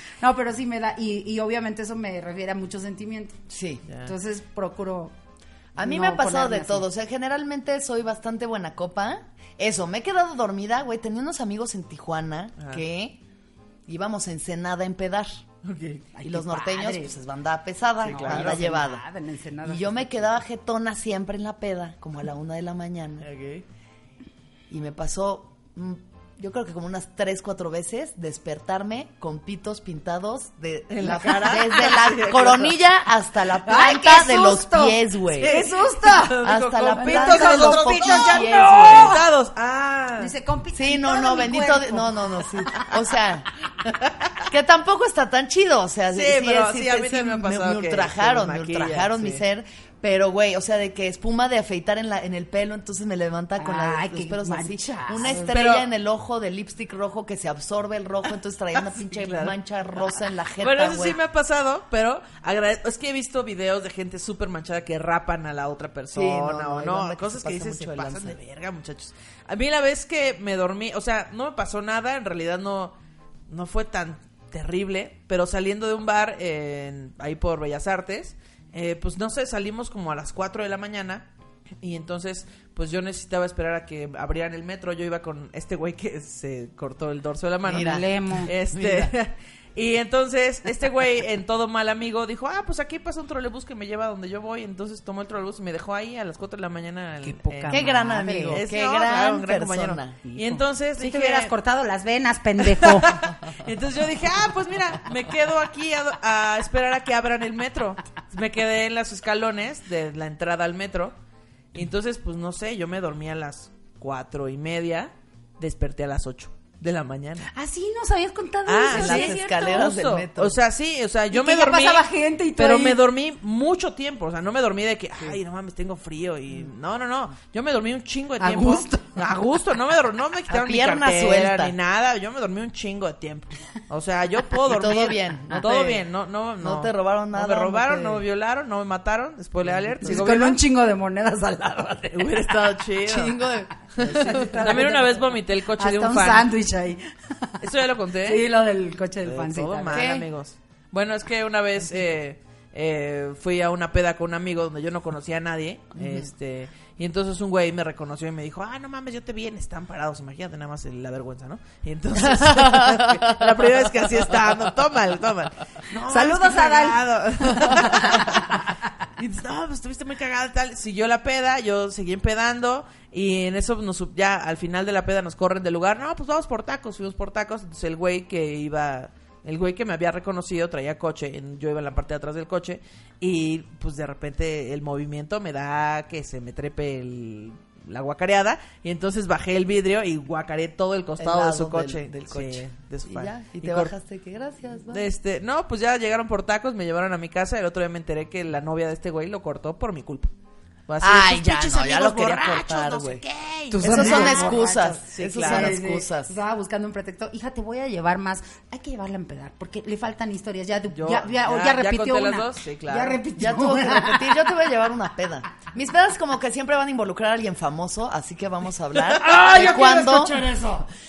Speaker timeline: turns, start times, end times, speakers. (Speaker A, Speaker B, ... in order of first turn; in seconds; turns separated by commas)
Speaker A: 0.2-3.4, Speaker B: 3.5-3.8, Speaker A: 4.0-5.1, Speaker B: 5.8-13.2, Speaker A: 5.8-6.8, Speaker B: 13.9-15.4, Speaker C: 15.6-16.1, Speaker A: 16.1-17.2, Speaker B: 16.2-19.0, Speaker A: 18.0-20.3, Speaker C: 18.1-18.6, Speaker B: 19.6-23.2, Speaker C: 23.2-23.6, Speaker B: 24.7-35.5, Speaker C: 30.9-32.8, Speaker A: 33.6-36.4, Speaker C: 35.4-40.3, Speaker B: 36.4-39.2, Speaker A: 37.0-39.2, Speaker A: 40.2-42.2, Speaker B: 40.7-43.5, Speaker C: 43.8-44.4, Speaker B: 44.5-61.2, Speaker C: 46.1-49.4, Speaker A: 53.6-55.6, Speaker C: 55.5-55.9, Speaker C: 58.7-72.9, Speaker B: 66.1-68.4, Speaker C: 73.5-81.2, Speaker C: 81.8-98.0, Speaker B: 87.7-89.1, Speaker A: 87.7-88.5, Speaker A: 97.2-98.6, Speaker B: 97.7-100.2, Speaker C: 98.5-101.5, Speaker A: 100.2-103.2, Speaker C: 102.6-111.1, Speaker C: 111.7-117.5, Speaker A: 117.5-119.8, Speaker C: 118.7-140.6, Speaker B: 118.9-120.6, Speaker A: 121.3-123.0, Speaker A: 128.4-129.1, Speaker B: 130.5-131.7, Speaker B: 134.6-136.0, Speaker B: 136.6-138.2, Speaker B: 139.6-140.2, Speaker A: 140.0-142.4, Speaker C: 142.1-146.5, Speaker B: 143.1-144.8, Speaker A: 144.0-147.6, Speaker C: 147.6-148.4, Speaker A: 148.2-150.0, Speaker C: 149.2-168.6, Speaker B: 149.9-150.2, Speaker B: 155.9-156.3, Speaker B: 162.2-163.4, Speaker A: 166.0-167.0, Speaker A: 167.6-168.4, Speaker C: 169.2-193.9, Speaker B: 191.2-195.1, Speaker C: 194.9-200.3, Speaker C: 200.9-205.8, Speaker B: 201.0-203.2, Speaker A: 203.7-214.3, Speaker B: 203.8-206.3, Speaker C: 210.9-213.2, Speaker B: 213.3-220.7, Speaker A: 219.0-220.8